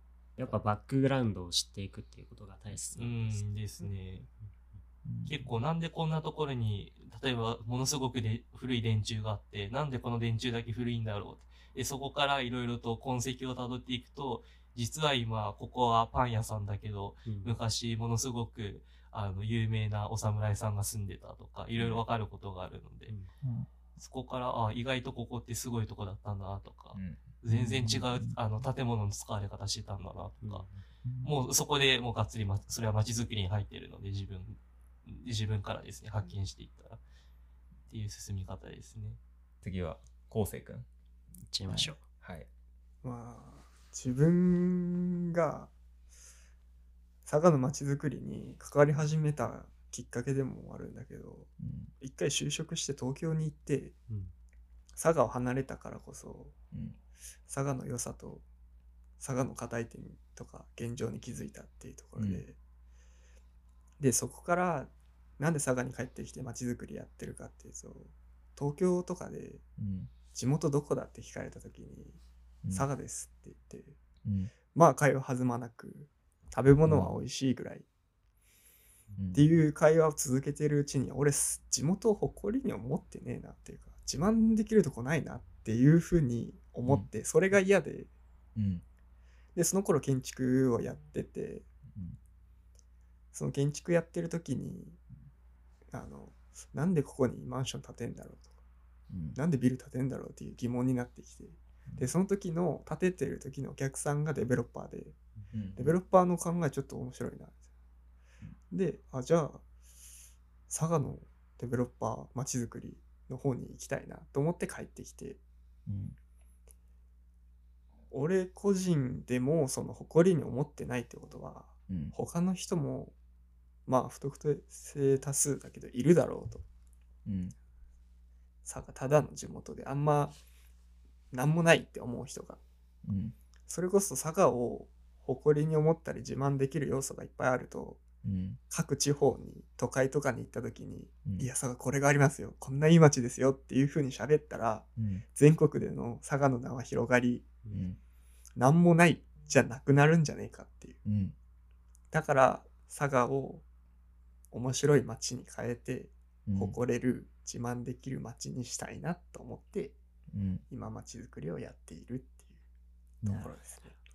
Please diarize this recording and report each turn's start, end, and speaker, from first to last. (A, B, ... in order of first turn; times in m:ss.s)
0:00.4-0:03.4 A
0:03.0-0:04.3 B
0:05.0-0:05.5 C
0:05.3-0:23.1 B
0:17.3-0:17.6 A
0:21.8-0:22.0 D
0:23.4-0:23.7 C
0:24.0-0:30.7 B
0:26.9-0:27.4 D
0:27.5-0:28.4 C
0:30.4-0:30.8 A
0:31.0-0:31.3 C
0:31.2-0:37.0 B
0:37.9-0:39.2 B
0:39.6-0:40.9 D
0:41.4-0:42.0 A
0:41.7-0:41.9 C
0:42.2-0:42.5 D
0:43.0-0:45.7 E
0:47.3-0:54.0 E
0:51.6-0:51.9 C
0:55.0-0:56.6 E
0:56.7-0:57.0 C
0:57.5-0:58.4 E
0:59.2-1:02.6 E
1:02.2-1:02.4 C
1:04.0-1:09.6 E
1:09.8-1:10.1 C
1:10.3-1:14.0 E
1:14.2-1:14.5 C
1:14.7-1:17.9 E
1:16.8-1:17.2 C
1:19.2-1:19.5 C
1:19.3-1:28.1 E
1:28.6-1:28.8 C
1:29.6-1:31.7 E
1:33.3-1:35.0 E
1:35.9-1:38.5 E
1:39.1-1:39.4 C
1:39.4-1:45.2 E
1:45.5-1:46.0 C
1:45.8-1:47.6 E
1:48.7-1:49.6 E
1:50.7-1:55.4 E
1:55.9-1:56.2 C
1:58.1-2:03.2 E
2:01.9-2:02.2 C
2:03.9-2:06.6 E
2:07.3-2:07.5 C
2:08.6-2:10.4 E
2:11.3-2:12.6 E
2:13.0-2:13.4 C
2:13.7-2:18.0 E
2:18.2-2:18.6 C
2:18.7-2:27.6 E
2:25.0-2:25.2 C
2:27.7-2:28.0 C
2:28.6-2:31.0 E
2:31.1-2:31.4 C
2:32.1-2:33.6 E
2:34.5-2:40.0 E
2:36.5-2:36.8 C
2:40.3-2:40.6 C
2:40.7-2:42.6 E
2:43.2-2:44.0 E
2:43.2-2:43.5 C